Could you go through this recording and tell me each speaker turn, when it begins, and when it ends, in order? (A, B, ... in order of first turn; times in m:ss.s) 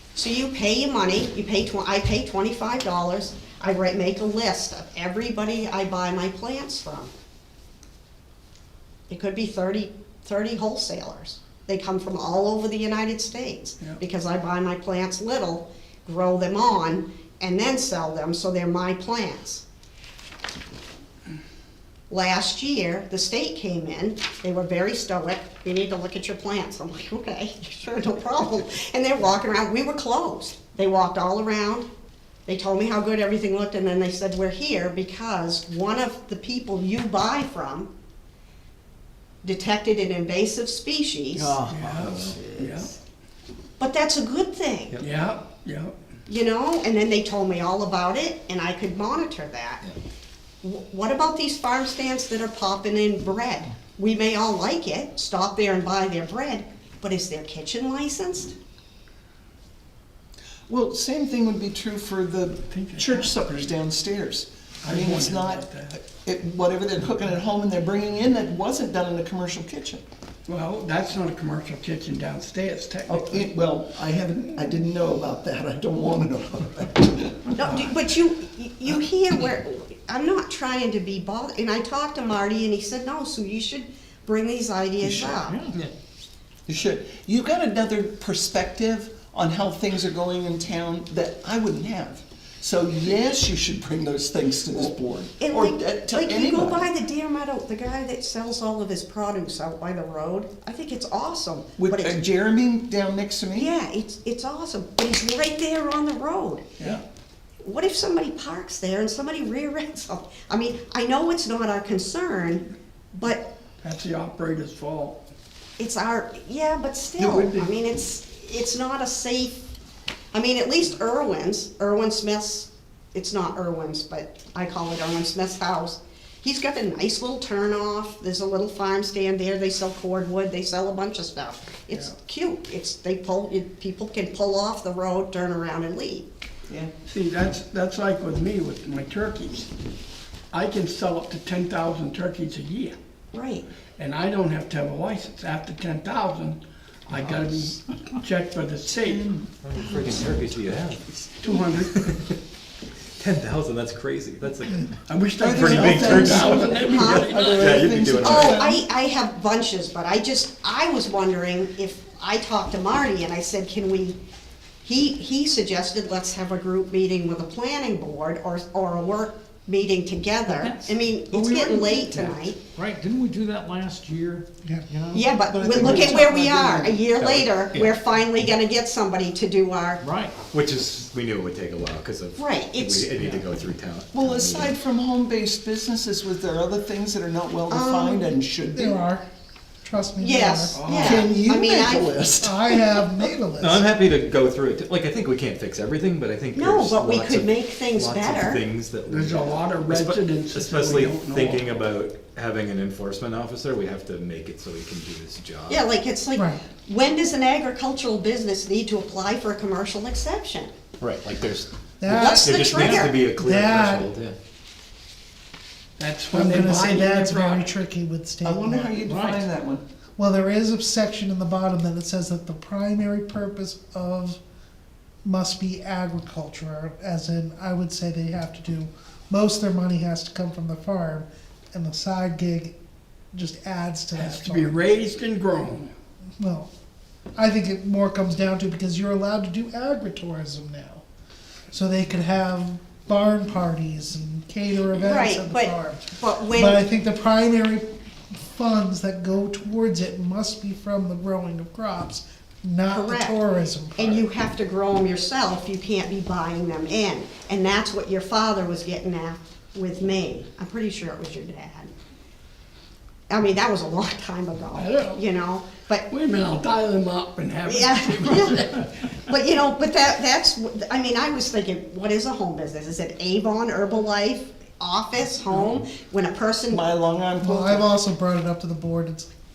0:00.2-0:07.1 A
0:09.1-0:19.6 A
0:22.1-0:31.9 A
0:32.5-0:37.9 A
0:39.4-0:41.6 A
0:41.4-0:42.8 B
0:41.7-0:42.9 C
0:41.7-0:42.5 D
0:43.8-0:45.0 A
0:45.0-0:46.0 C
0:46.3-0:49.9 A
0:50.6-0:58.6 A
1:00.7-1:10.0 E
1:02.7-1:03.3 C
1:04.8-1:06.0 C
1:10.5-1:13.5 C
1:13.1-1:17.6 E
1:17.6-1:25.7 A
1:17.6-1:18.0 C
1:25.0-1:25.5 E
1:25.5-1:25.8 B
1:26.7-1:36.9 E
1:35.4-1:42.2 A
1:41.8-1:43.7 E
1:43.6-1:46.7 A
1:47.6-1:53.5 A
1:53.8-1:55.2 C
1:55.8-1:59.6 A
1:57.2-1:57.7 E
2:00.3-2:16.3 A
2:16.7-2:16.9 E
2:17.1-2:19.7 C
2:20.5-2:23.0 C
2:23.3-2:23.7 A
2:24.0-2:29.3 C
2:29.1-2:29.4 E
2:29.6-2:31.1 D
2:31.4-2:32.1 C
2:31.9-2:32.4 D
2:33.2-2:35.0 D
2:35.1-2:37.8 C
2:35.4-2:38.8 E
2:35.5-2:38.6 D
2:36.6-2:44.2 A
2:44.8-2:52.6 A
2:50.5-2:52.0 B
2:52.7-2:55.3 B
2:55.1-3:00.0 A
2:55.5-2:57.0 E
2:57.2-2:57.9 D
3:00.0-3:00.4 B
3:00.5-3:04.8 D
3:02.4-3:03.1 A
3:03.2-3:03.5 B
3:04.1-3:09.0 E
3:07.7-3:08.4 A
3:08.7-3:09.2 F
3:09.8-3:10.8 F
3:10.2-3:12.2 A
3:10.7-3:11.3 C
3:10.9-3:12.8 E
3:12.4-3:13.8 F
3:13.6-3:25.9 D
3:16.5-3:18.6 A
3:19.1-3:21.9 C
3:25.7-3:30.7 A
3:26.4-3:26.6 F
3:31.0-3:34.4 D
3:32.0-3:32.7 F
3:32.1-3:33.2 A
3:33.2-3:34.1 F
3:36.0-3:37.7 C
3:36.3-3:39.0 F
3:38.4-3:39.8 E
3:39.0-3:39.5 B
3:40.2-3:44.4 F
3:45.2-3:52.8 F
3:53.3-3:54.8 F
3:54.2-3:55.9 C
3:56.4-3:56.7 F
3:57.4-4:01.0 F
4:01.7-4:14.3 F
4:05.0-4:06.8 A
4:12.9-4:13.4 A
4:14.0-4:21.9 A
4:23.3-4:26.1 A
4:24.7-4:25.2 C
4:26.1-4:29.0 C
4:27.7-4:36.8 A
4:36.7-4:37.9 E
4:37.4-4:39.3 F